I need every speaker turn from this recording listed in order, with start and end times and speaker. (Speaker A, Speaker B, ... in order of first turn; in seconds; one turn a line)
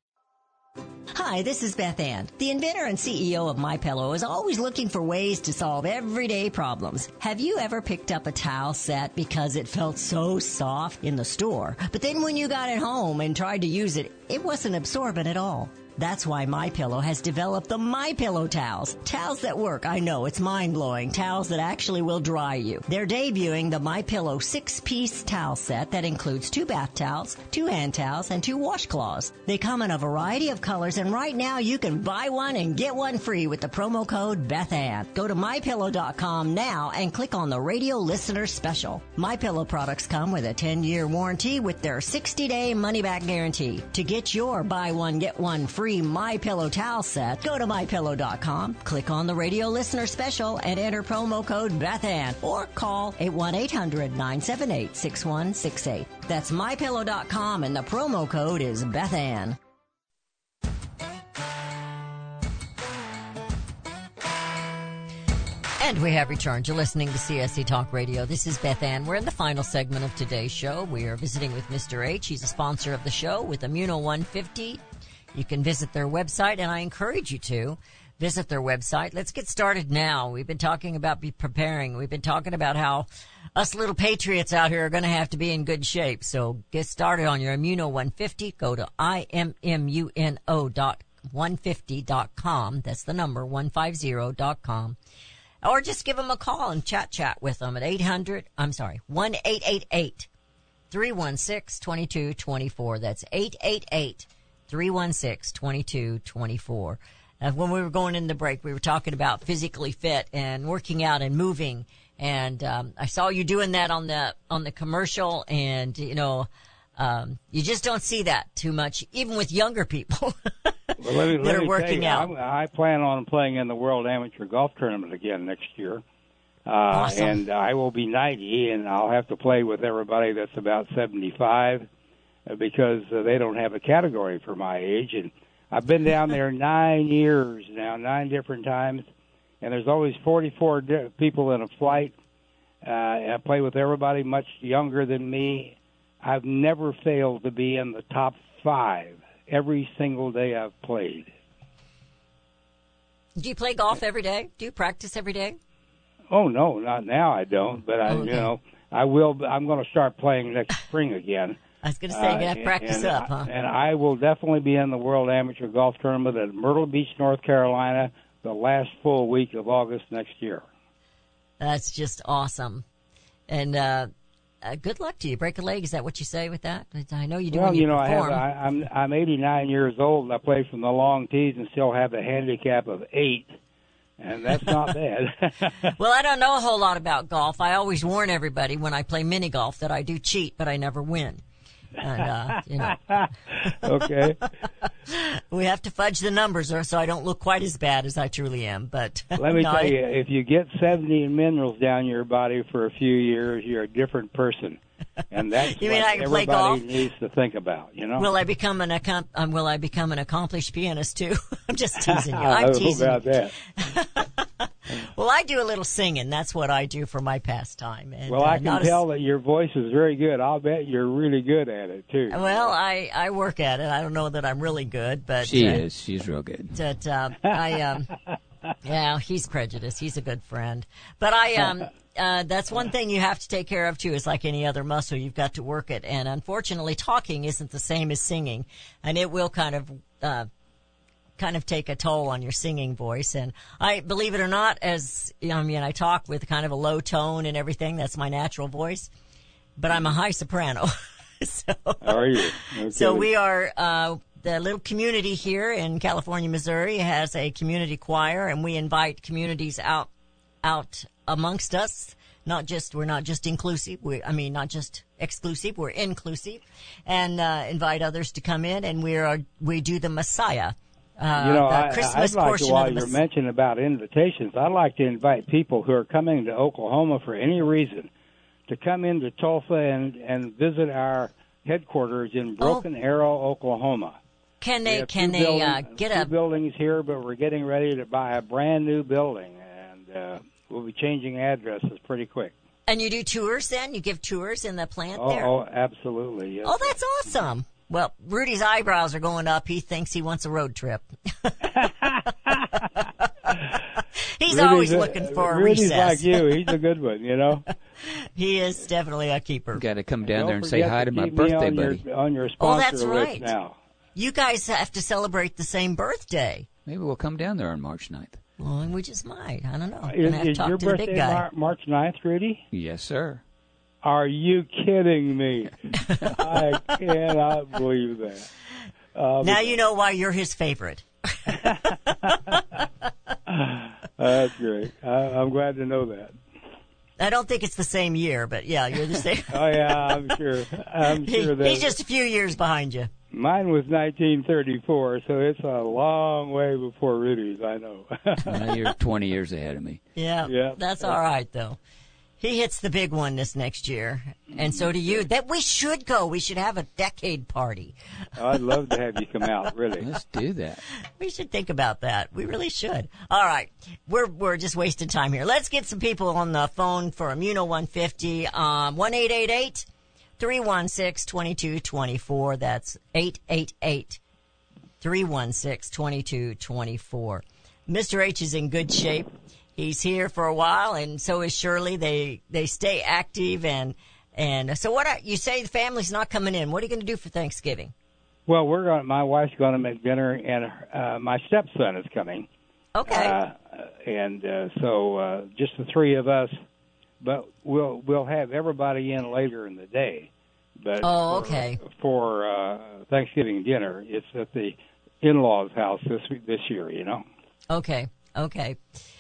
Speaker A: 1.1-59.6
Speaker A: 65.8-74.8
Speaker A: 75.3-95.0
Speaker A: 95.6-100.3
Speaker A: 100.9-122.3
Speaker B: 121.0-126.0
Speaker B: 126.7-131.9
Speaker A: 126.9-127.4
Speaker B: 132.4-139.1
Speaker B: 139.6-142.1
Speaker B: 142.8-151.3
Speaker A: 153.4-155.6
Speaker B: 156.3-161.6
Speaker A: 158.1-158.5
Speaker A: 161.8-163.5
Speaker B: 162.1-170.6
Speaker A: 171.6-172.8
Speaker A: 173.5-174.1
Speaker A: 174.6-178.4
Speaker B: 177.5-183.6
Speaker B: 184.2-185.9
Speaker A: 185.9-191.4
Speaker A: 192.0-193.8
Speaker B: 192.8-194.5
Speaker A: 195.1-199.9
Speaker B: 199.4-204.8
Speaker B: 205.3-208.3
Speaker A: 205.7-206.8
Speaker A: 208.2-213.2
Speaker B: 212.0-213.6
Speaker A: 213.8-219.0
Speaker B: 218.3-222.7
Speaker A: 222.3-225.8
Speaker C: 225.4-226.7
Speaker A: 226.7-228.1
Speaker A: 228.8-240.5
Speaker A: 241.4-249.1
Speaker A: 249.8-260.1
Speaker B: 252.0-253.3
Speaker A: 260.6-273.2
Speaker B: 271.4-278.1
Speaker B: 278.7-284.2
Speaker A: 284.6-286.3
Speaker B: 284.8-292.5
Speaker A: 292.9-295.5
Speaker B: 295.1-296.9
Speaker A: 296.6-301.9
Speaker B: 301.7-302.9
Speaker A: 303.0-303.6
Speaker A: 304.2-306.5
Speaker B: 304.5-307.7
Speaker A: 308.0-309.8
Speaker C: 309.7-312.0
Speaker B: 310.2-313.7
Speaker A: 312.6-313.5
Speaker A: 314.1-316.7
Speaker C: 316.9-318.4
Speaker A: 318.6-321.4
Speaker B: 320.1-322.6
Speaker C: 322.7-323.4
Speaker B: 324.0-328.5
Speaker B: 329.1-329.8
Speaker A: 329.4-331.9
Speaker B: 331.5-332.6
Speaker B: 333.5-336.3
Speaker A: 337.2-340.2
Speaker B: 339.5-341.9
Speaker A: 341.2-343.1
Speaker B: 343.3-348.8
Speaker C: 348.4-350.0
Speaker A: 350.1-351.8
Speaker B: 350.4-351.2
Speaker A: 352.4-357.9
Speaker B: 354.6-355.2
Speaker B: 358.4-360.1
Speaker C: 360.0-360.8
Speaker A: 361.2-369.9
Speaker A: 370.4-374.2
Speaker A: 375.0-387.9
Speaker B: 388.5-392.5
Speaker A: 392.9-393.4
Speaker B: 393.1-396.5
Speaker B: 397.2-407.2
Speaker A: 401.0-401.8
Speaker A: 407.7-408.8